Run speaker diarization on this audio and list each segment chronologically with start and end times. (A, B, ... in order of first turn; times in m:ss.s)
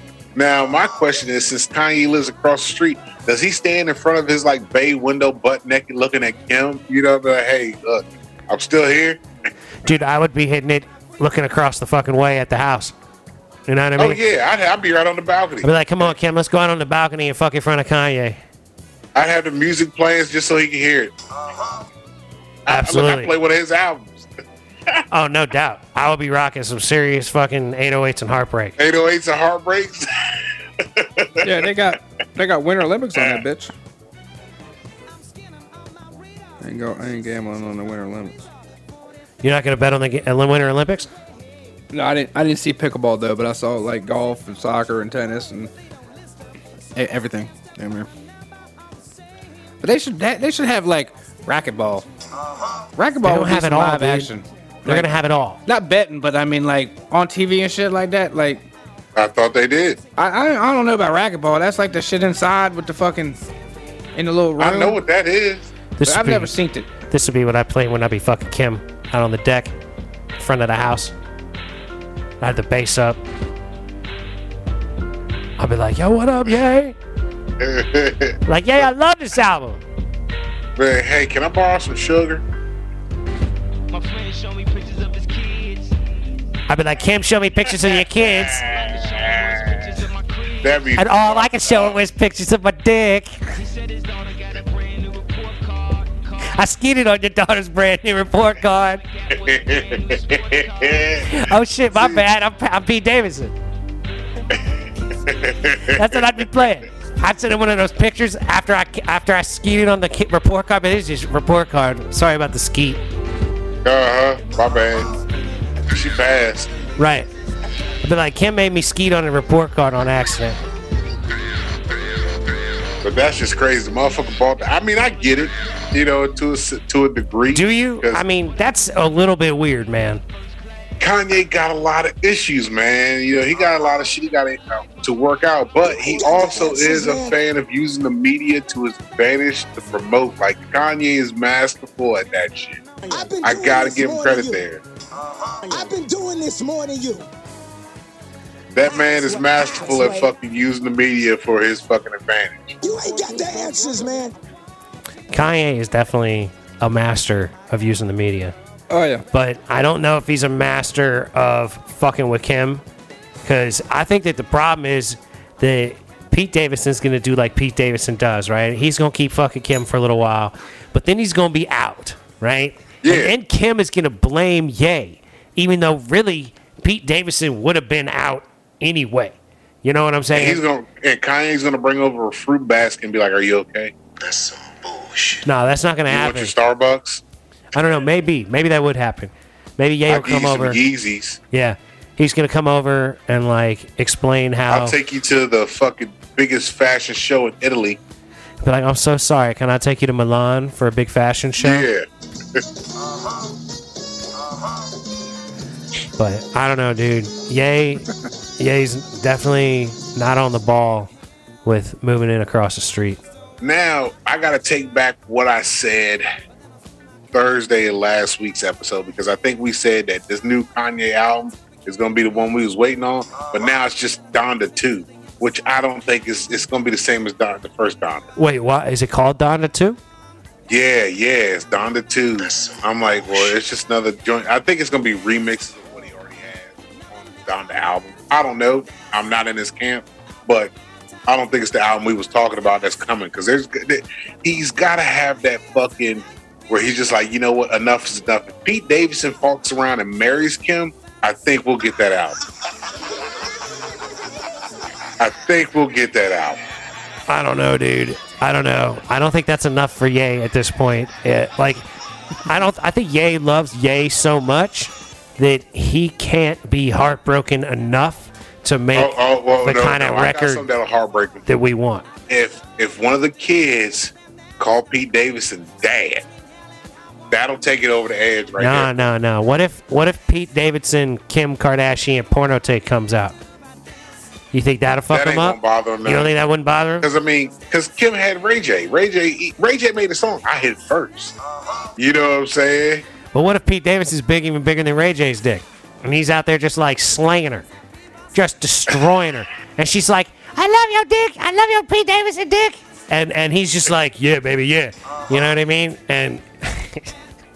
0:00.3-0:09.2 A
0:09.8-0:12.9 B
0:13.7-0:14.2 B
0:14.0-0:16.1 A
0:15.6-0:18.4 B
0:19.1-0:21.1 A
0:22.6-0:24.3 A
0:22.7-0:23.3 B
0:25.1-0:28.8 B
0:28.8-0:30.1 A
0:30.8-0:31.7 A
0:31.4-0:33.7 C
0:33.2-0:33.4 A
0:36.6-0:38.4 C
0:39.4-0:41.1 B
0:41.9-0:45.7 C
0:47.0-0:48.1 C
0:49.8-0:52.0 C
0:53.0-0:55.1 C
0:53.2-0:54.3 B
0:54.8-0:55.6 B
0:55.6-0:58.7 C
0:59.2-1:00.0 A
1:00.2-1:03.4 C
1:04.2-1:05.0 C
1:04.6-1:05.7 A
1:06.0-1:06.5 B
1:06.0-1:06.9 C
1:07.1-1:09.7 B
1:10.4-1:11.1 B
1:12.4-1:13.2 B
1:15.6-1:16.9 B
1:17.6-1:18.4 A
1:18.5-1:19.8 B
1:20.8-1:22.4 A
1:23.9-1:26.0 D
1:26.7-1:28.6 B
1:27.7-1:29.7 A
1:28.6-1:30.9 D
1:30.6-1:32.0 A
1:31.0-1:33.4 B
1:33.5-1:36.4 D
1:36.5-1:39.0 B
1:39.1-1:41.3 D
1:39.4-1:41.3 A
1:41.2-1:43.5 B
1:41.9-1:42.2 A
1:45.2-1:46.4 A
1:45.9-1:53.0 B
1:53.8-1:55.1 A
1:55.9-1:56.7 A
1:57.0-1:57.3 B
1:58.0-2:00.6 B
2:03.0-2:08.2 A
2:07.5-2:10.2 B
2:11.0-2:22.8 A
2:16.0-2:17.3 E
2:23.0-2:24.6 E
2:23.4-2:24.8 A
2:25.6-2:27.3 E
2:28.7-2:32.8 A
2:28.9-2:30.3 E
2:32.8-2:34.3 E
2:35.3-2:38.5 B
2:38.9-2:39.2 C
2:39.3-2:42.8 B
2:43.4-3:00.6 B
2:53.0-2:53.3 A
3:00.3-3:03.9 A
3:05.4-3:06.5 B
3:06.1-3:07.2 A
3:07.7-3:10.8 B
3:10.1-3:11.4 A
3:11.5-3:15.0 B
3:14.7-3:18.0 A
3:18.6-3:21.9 B
3:21.6-3:22.6 A
3:26.2-3:28.1 B
3:28.6-3:31.1 B
3:31.6-3:33.2 B
3:33.6-3:36.3 A
3:37.3-3:48.3 A
3:48.4-3:50.0 B
3:50.7-4:00.7 A
4:01.3-4:12.4 A
4:15.2-4:16.6 A
4:17.3-4:21.8 B
4:22.4-4:30.6 B
4:28.9-4:31.5 A
4:31.4-4:32.0 B
4:32.3-4:36.2 A
4:37.3-4:38.9 A
4:38.6-4:43.4 B
4:44.5-4:47.1 B
4:45.1-4:46.3 A
4:47.0-4:51.3 A
4:52.0-4:53.0 A
4:53.3-4:57.7 B
4:58.3-5:07.1 B